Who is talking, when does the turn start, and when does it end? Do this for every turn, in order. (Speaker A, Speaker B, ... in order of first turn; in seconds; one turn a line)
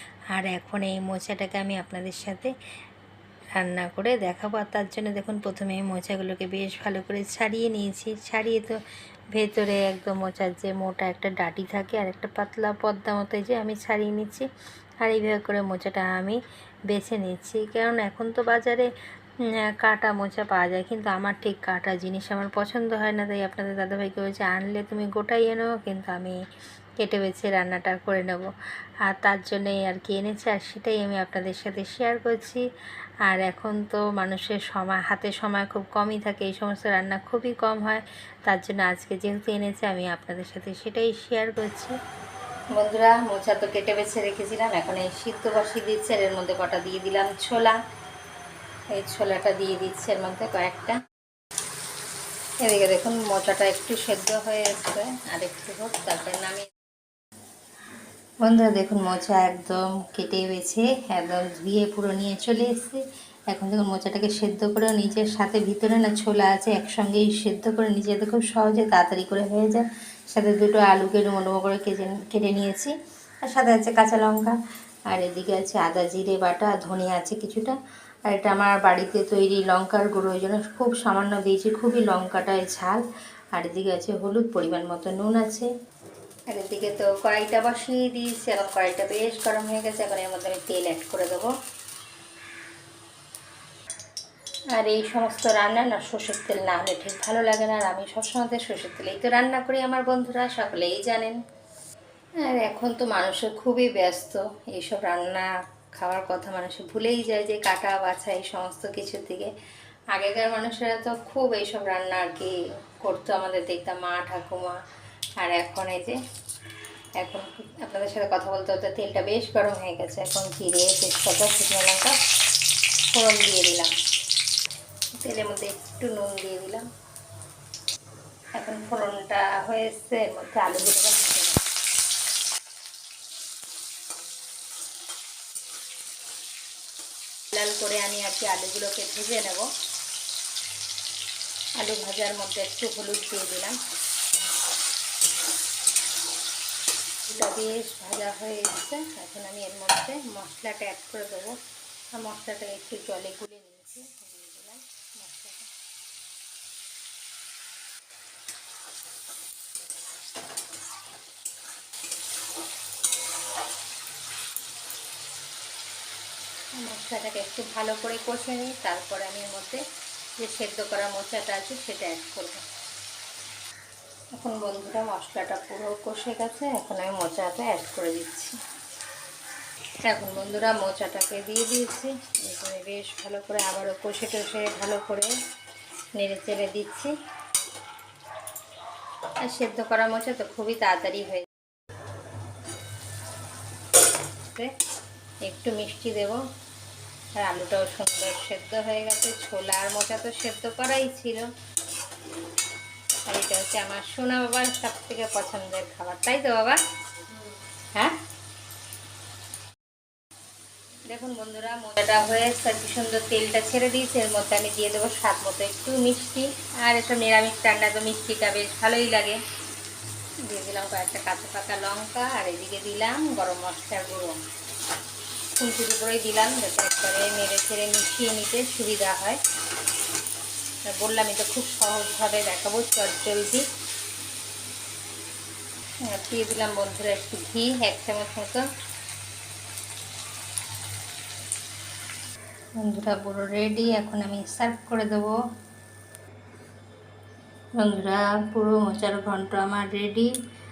Speaker A: 0.3-2.5
Speaker A: 3.5-8.8
Speaker A: 9.3-14.5
Speaker A: 15.0-18.9
Speaker A: 19.5-26.4
Speaker A: 27.0-28.5
Speaker A: 29.1-32.7
Speaker A: 33.2-42.0
Speaker A: 42.7-47.8
Speaker A: 48.9-51.0
Speaker A: 52.6-56.7
Speaker A: 58.4-74.6
Speaker A: 75.1-83.0
Speaker A: 83.5-85.7
Speaker A: 86.5-91.5
Speaker A: 94.8-101.4
Speaker A: 102.4-109.5
Speaker A: 110.1-114.8
Speaker A: 115.4-116.2
Speaker A: 117.2-122.2
Speaker A: 123.1-123.9
Speaker A: 125.2-126.9
Speaker A: 128.6-131.6
Speaker A: 137.5-139.7
Speaker A: 141.8-143.8
Speaker A: 147.3-151.6
Speaker A: 152.1-155.7
Speaker A: 166.8-169.8
Speaker A: 170.4-172.6
Speaker A: 174.3-178.6
Speaker A: 180.0-185.3
Speaker A: 186.1-187.2
Speaker A: 189.4-191.5
Speaker A: 194.5-194.8
Speaker A: 195.4-196.4
Speaker A: 197.4-201.5
Speaker A: 203.3-206.8
Speaker A: 211.1-219.4
Speaker A: 220.4-224.4
Speaker A: 225.6-229.4
Speaker A: 230.9-233.7
Speaker A: 236.1-238.7
Speaker A: 242.8-245.4
Speaker A: 247.8-250.3